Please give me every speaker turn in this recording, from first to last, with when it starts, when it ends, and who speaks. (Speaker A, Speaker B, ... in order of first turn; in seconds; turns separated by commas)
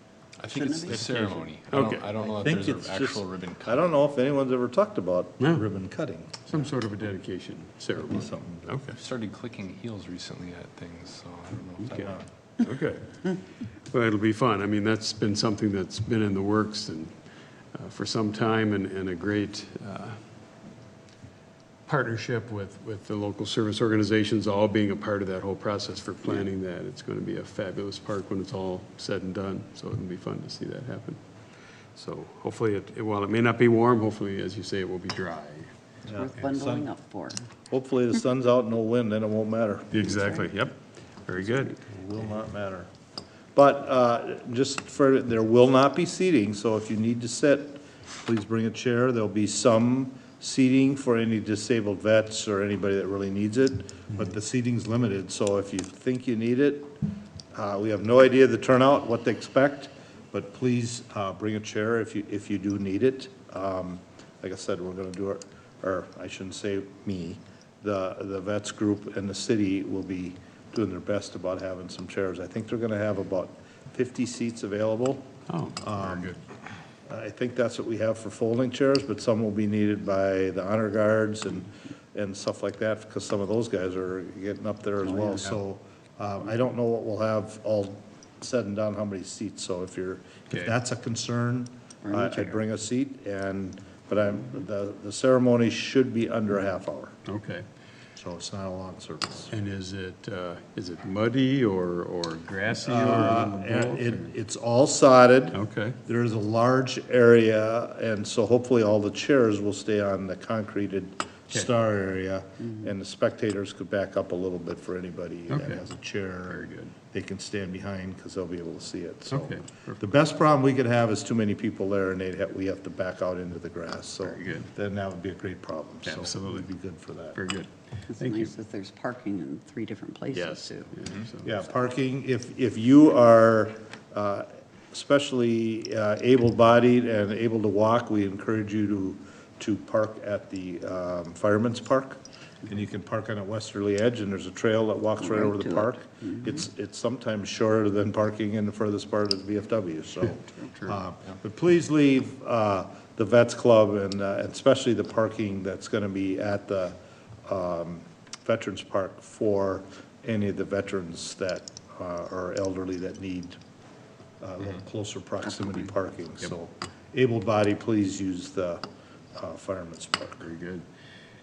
Speaker A: 0.4-4.0, Speaker B: 0.5-1.0, Speaker C: 0.9-2.1, Speaker D: 2.4-6.4, Speaker C: 5.4-5.6, Speaker C: 6.4-8.9, Speaker D: 7.9-8.8, Speaker A: 8.9-12.2, Speaker D: 11.9-12.2, Speaker C: 12.6-17.2, Speaker C: 17.7-20.2, Speaker C: 21.9-31.2, Speaker C: 31.9-35.7, Speaker D: 36.0-36.9, Speaker B: 36.1-37.5, Speaker D: 37.7-40.1, Speaker C: 39.9-41.7, Speaker D: 41.5-42.9, Speaker D: 43.5-75.3, Speaker C: 75.5-76.4, Speaker D: 75.8-76.3, Speaker D: 77.0-97.1, Speaker B: 92.0-92.6, Speaker C: 97.2-97.7, Speaker D: 98.2-99.5, Speaker C: 99.5-104.3, Speaker D: 102.8-127.4, Speaker C: 105.5-106.0, Speaker C: 115.5-115.9, Speaker C: 116.5-116.9, Speaker C: 119.3-120.0, Speaker C: 124.2-124.7, Speaker C: 126.0-126.7, Speaker C: 127.3-128.5, Speaker B: 128.1-130.9, Speaker C: 130.3-131.6, Speaker D: 131.4-163.6, Speaker B: 145.2-146.5, Speaker C: 150.7-151.0, Speaker D: 164.4-170.4, Speaker C: 170.4-170.8